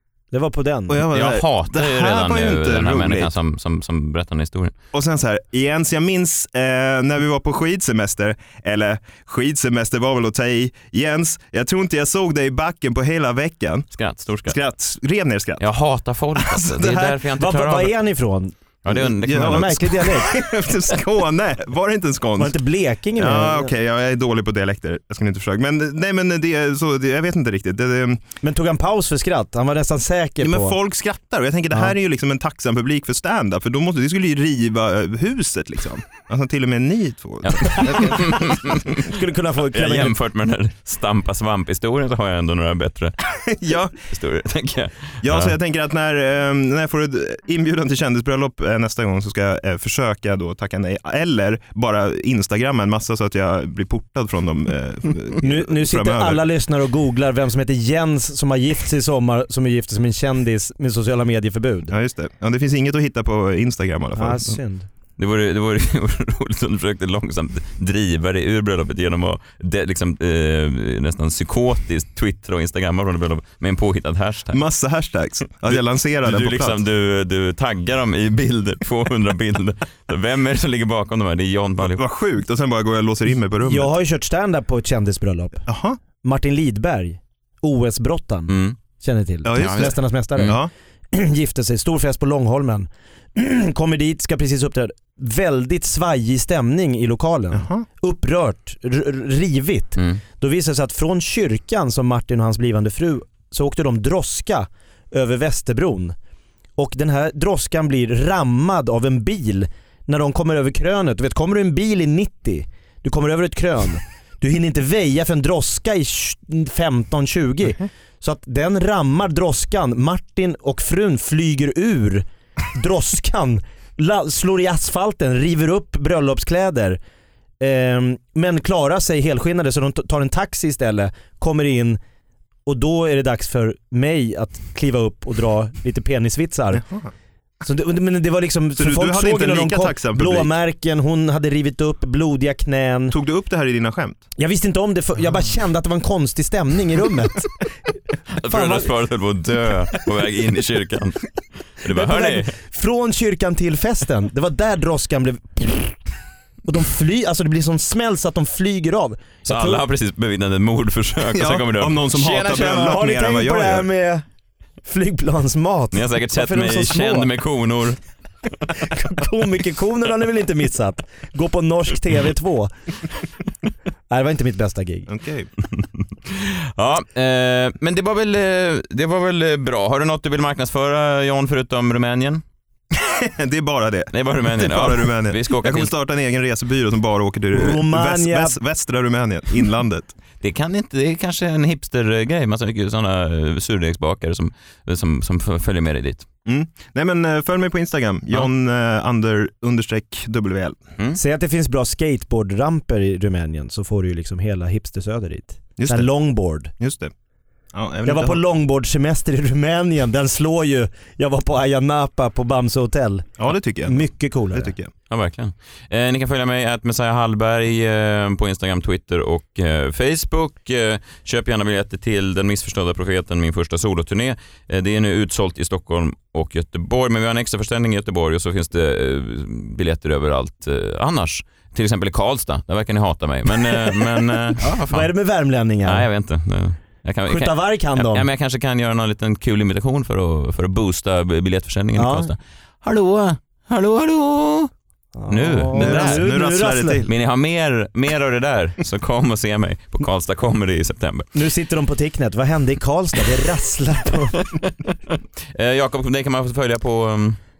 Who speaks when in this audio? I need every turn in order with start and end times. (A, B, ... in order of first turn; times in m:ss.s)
0:00.3-0:01.0 A
0:00.9-0:03.3 B
0:01.1-0:04.7 C
0:04.9-0:13.9 B
0:13.9-0:14.6 C
0:14.4-0:15.6 B
0:15.6-0:17.9 C
0:16.4-0:17.2 B
0:17.4-0:20.4 A
0:18.8-0:19.9 C
0:18.9-0:22.6 B
0:22.4-0:23.7 A
0:23.2-0:28.2 B
0:28.4-0:30.8 A
0:30.4-0:38.3 B
0:37.4-0:39.0 C
0:37.7-0:38.2 A
0:38.9-0:40.2 A
0:39.7-0:43.2 C
0:43.4-0:43.9 B
0:44.0-0:45.5 C
0:45.2-0:56.4 B
0:55.4-1:01.9 A
1:01.9-1:04.6 B
1:04.2-1:04.9 A
1:05.2-1:14.6 C
1:14.5-1:16.8 B
1:15.7-1:22.0 C
1:21.8-1:23.9 B
1:23.6-1:25.7 A
1:25.7-1:26.0 B
1:26.2-1:46.1 A
1:28.5-1:28.8 C
1:29.4-1:30.7 B
1:29.5-1:30.6 C
1:37.5-1:37.8 B
1:40.0-1:40.2 C
1:46.8-2:07.0 A
2:07.6-2:12.0 A
2:12.6-2:16.8 A
2:16.7-2:17.1 B
2:17.6-2:23.2 A
2:18.8-2:20.5 B
2:23.1-2:24.2 B
2:24.4-2:27.6 A
2:28.3-2:31.2 C
2:28.4-2:28.9 A
2:31.8-2:32.5 C
2:31.9-2:36.0 A
2:36.6-2:39.8 A
2:39.4-2:42.4 C
2:41.3-2:43.9 B
2:42.3-2:44.2 A
2:44.8-2:47.3 A
2:45.9-2:48.0 C
2:48.7-2:52.7 A
2:54.1-2:55.1 A
2:55.1-2:55.5 B
2:55.8-3:02.4 C
3:02.9-3:10.2 B
3:04.1-3:05.9 C
3:07.5-3:08.6 A
3:10.4-3:16.2 C
3:16.4-3:20.8 B
3:21.1-3:26.7 A
3:25.8-3:26.1 B
3:26.8-3:27.1 B
3:27.7-3:28.4 B
3:28.0-3:34.7 A
3:33.4-3:34.9 B
3:35.1-3:55.1 C
3:53.6-3:56.1 A
3:55.8-4:04.7 C
3:57.3-3:58.2 A
4:02.0-4:02.3 A
4:05.2-4:07.0 A
4:05.3-4:06.2 C
4:05.7-4:07.1 B
4:07.0-4:11.3 C
4:11.3-4:14.6 A
4:14.6-4:14.9 C
4:15.5-4:17.4 C